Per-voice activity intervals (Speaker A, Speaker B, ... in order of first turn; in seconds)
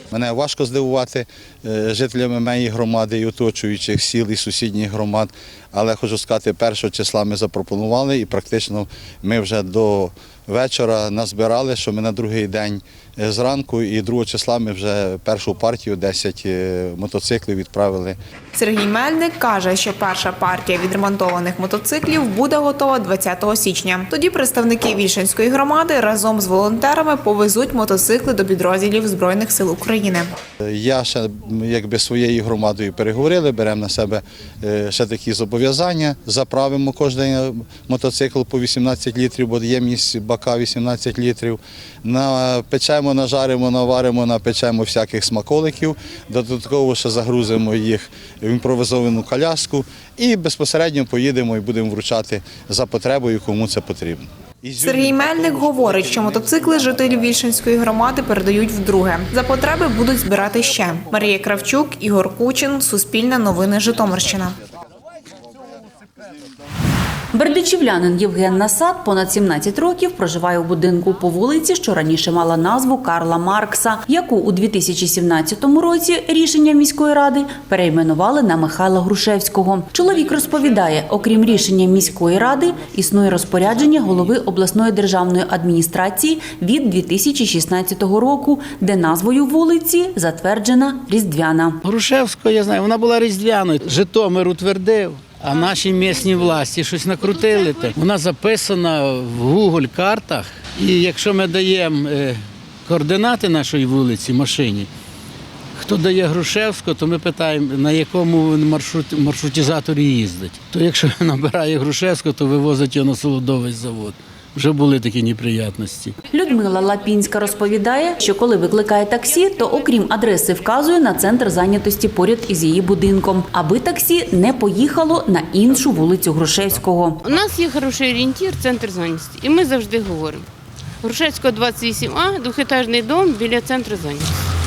Speaker A: 0.1-18.1, 30.6-56.2
Speaker B: 18.5-30.3, 54.8-64.6
Speaker C: 67.3-91.8, 116.3-127.2
Speaker D: 91.8-104.9, 105.8-116.1
Speaker E: 97.2-97.9, 127.2-130.4, 131.0-134.3